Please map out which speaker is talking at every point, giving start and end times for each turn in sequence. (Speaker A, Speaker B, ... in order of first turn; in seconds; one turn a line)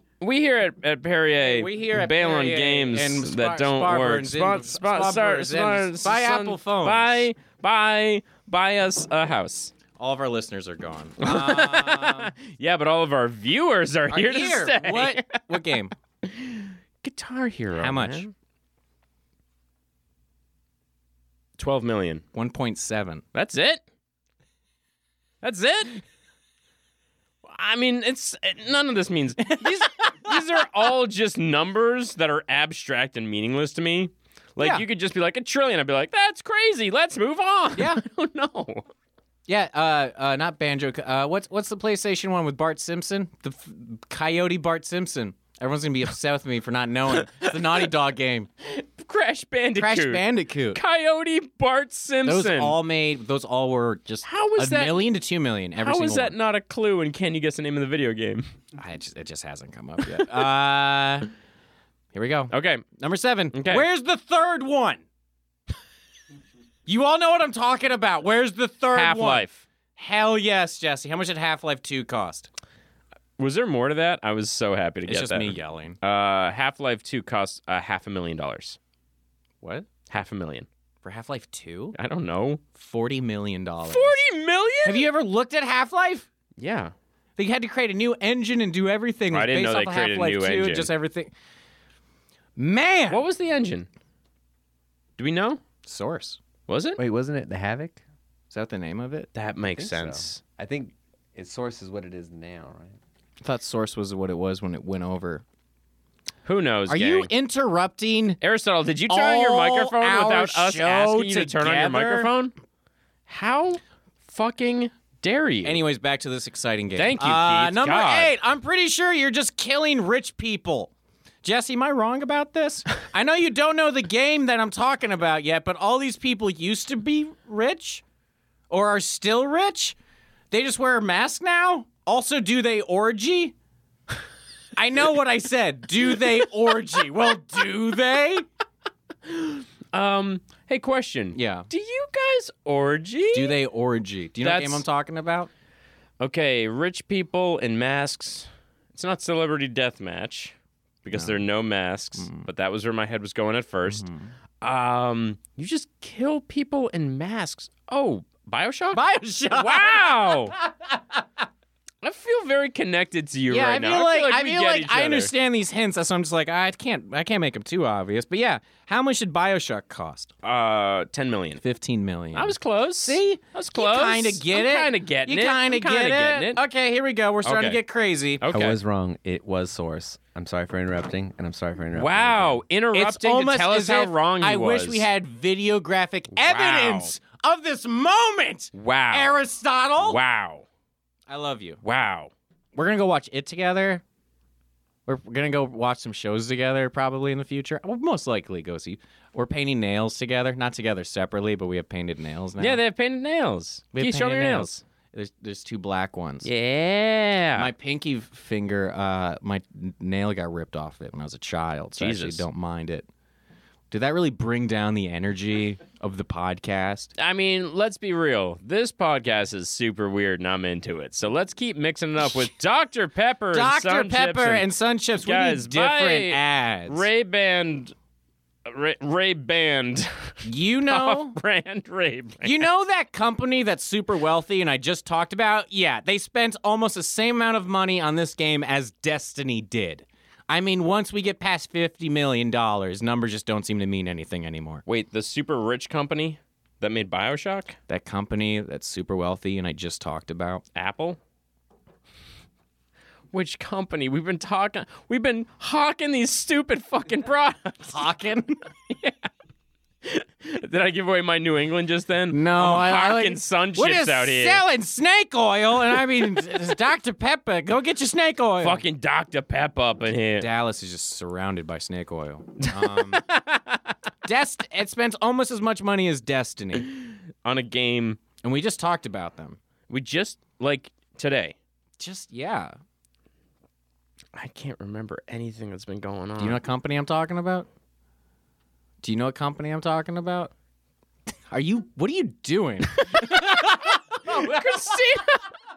Speaker A: 0.2-9.7
Speaker B: 1.4-7.3
Speaker B: 9.9-12.3
Speaker A: 11.2-18.3
Speaker B: 14.1-15.9
Speaker B: 17.8-18.2
Speaker A: 21.6-22.2
Speaker B: 22.3-23.2
Speaker A: 23.3-23.8
Speaker A: 25.4-26.0
Speaker A: 27.4-38.9
Speaker B: 29.5-30.2
Speaker B: 34.6-34.8
Speaker B: 37.7-38.0
Speaker B: 39.5-48.5
Speaker A: 47.1-47.8
Speaker A: 48.6-52.8
Speaker B: 49.7-50.8
Speaker B: 52.2-56.3
Speaker A: 54.2-55.1
Speaker A: 55.8-58.5
Speaker B: 58.8-61.3
Speaker B: 62.1-65.0
Speaker A: 62.5-62.8
Speaker A: 63.5-63.9
Speaker B: 66.8-72.5
Speaker A: 68.9-69.7
Speaker A: 73.4-78.8
Speaker B: 75.0-76.0
Speaker A: 80.1-80.7
Speaker B: 81.0-82.0
Speaker A: 81.9-82.6
Speaker B: 82.7-84.2
Speaker A: 83.8-85.1
Speaker B: 84.8-86.3
Speaker A: 86.6-86.9
Speaker B: 87.4-91.3
Speaker A: 89.3-90.9
Speaker B: 92.6-93.2
Speaker A: 93.1-93.9
Speaker A: 95.2-95.6
Speaker B: 95.8-96.4
Speaker A: 96.7-97.0
Speaker C: 97.0-98.0
Speaker B: 98.5-99.3
Speaker A: 99.3-100.4
Speaker C: 99.7-103.0
Speaker B: 103.4-105.4
Speaker A: 106.4-107.3
Speaker B: 106.9-108.4
Speaker A: 108.4-112.5
Speaker B: 109.1-112.3
Speaker A: 113.3-115.8
Speaker B: 115.6-120.9
Speaker A: 116.9-118.3
Speaker B: 121.4-128.0
Speaker B: 128.7-129.9
Speaker B: 130.5-133.5
Speaker B: 134.8-138.4
Speaker A: 139.2-143.6
Speaker B: 141.3-141.7
Speaker B: 143.3-145.5
Speaker A: 144.4-144.8
Speaker A: 146.2-150.5
Speaker A: 151.0-154.1
Speaker B: 151.1-151.4
Speaker B: 152.2-152.4
Speaker B: 153.9-154.3
Speaker A: 154.6-160.5
Speaker B: 158.9-161.2
Speaker A: 162.0-165.3
Speaker B: 163.5-170.3
Speaker A: 170.4-171.6
Speaker B: 171.6-178.4
Speaker A: 172.3-176.6
Speaker A: 177.4-177.8
Speaker A: 178.4-178.8
Speaker C: 178.5-182.6
Speaker A: 181.9-185.1
Speaker B: 182.9-190.2
Speaker A: 186.3-187.1
Speaker A: 188.7-189.4
Speaker A: 190.0-190.7
Speaker B: 191.3-191.8
Speaker A: 191.8-192.3
Speaker B: 192.7-194.0
Speaker B: 195.1-202.8
Speaker A: 202.6-204.8
Speaker B: 203.9-206.5
Speaker A: 206.4-207.7
Speaker B: 207.6-213.1
Speaker A: 212.0-212.4
Speaker B: 213.9-217.1
Speaker A: 217.2-227.9
Speaker B: 223.5-227.0
Speaker A: 228.7-232.7
Speaker B: 230.4-231.4
Speaker B: 232.4-244.8
Speaker A: 244.8-247.8
Speaker B: 247.9-250.6
Speaker A: 250.7-251.2
Speaker A: 253.3-258.0
Speaker B: 257.9-258.6
Speaker A: 258.9-259.3
Speaker A: 260.0-264.6
Speaker B: 262.3-268.8
Speaker A: 268.6-270.5
Speaker B: 270.4-273.2
Speaker A: 272.6-273.8
Speaker B: 274.2-276.9
Speaker A: 277.4-278.2
Speaker B: 278.4-279.6
Speaker A: 279.9-281.6
Speaker B: 282.0-282.7
Speaker A: 284.3-286.6
Speaker B: 286.4-287.7
Speaker B: 289.0-290.5
Speaker B: 291.5-294.9
Speaker A: 293.0-295.4